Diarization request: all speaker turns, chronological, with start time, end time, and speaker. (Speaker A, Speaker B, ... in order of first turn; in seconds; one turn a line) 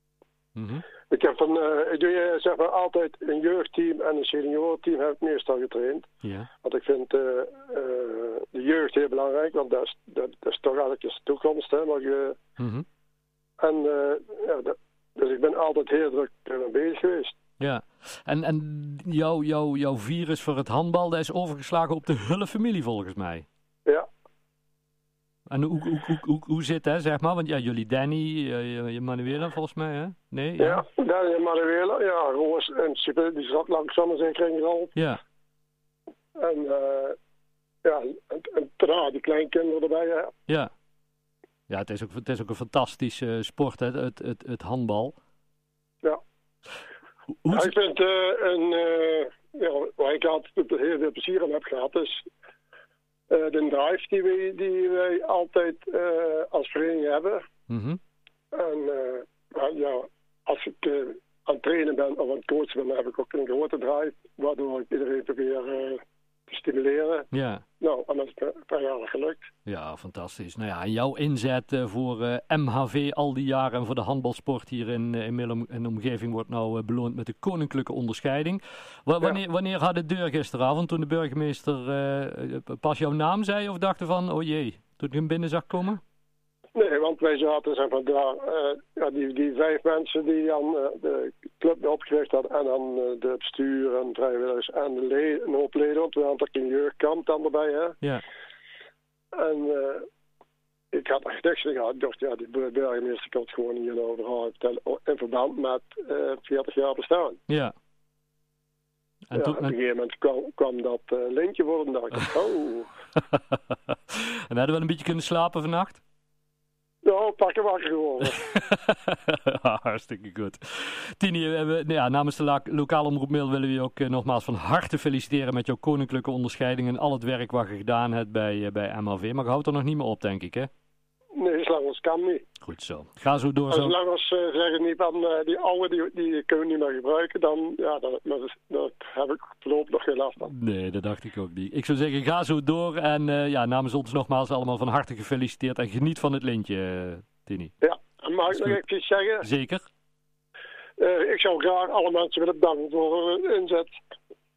Speaker A: 0.6-0.8
Speaker B: 1.1-6.1
Speaker A: 6.2-6.5
Speaker B: 6.6-12.4
Speaker A: 12.6-12.8
Speaker B: 13.6-17.3
Speaker A: 17.6-23.4
Speaker A: 25.5-30.8
Speaker B: 30.6-34.9
Speaker B: 36.4-37.2
Speaker B: 37.8-40.3
Speaker A: 41.7-45.1
Speaker A: 47.4-47.7
Speaker B: 47.5-52.2
Speaker B: 53.3-57.4
Speaker A: 57.7-58.0
Speaker B: 58.5-67.3
Speaker A: 67.3-67.6
Speaker B: 67.8-69.5
Speaker A: 69.7-86.0
Speaker B: 86.8-98.0
Speaker B: 99.3-100.1
Speaker B: 100.9-107.4
Speaker A: 107.5-107.7
Speaker A: 109.3-109.7
Speaker B: 109.3-112.9
Speaker A: 114.1-116.0
Speaker B: 117.0-118.4
Speaker A: 118.3-130.7
Speaker B: 131.4-132.4
Speaker A: 132.6-134.0
Speaker B: 133.7-140.5
Speaker A: 140.4-147.7
Speaker B: 147.8-149.5
Speaker A: 148.5-148.8
Speaker A: 149.4-149.8
Speaker B: 151.0-153.9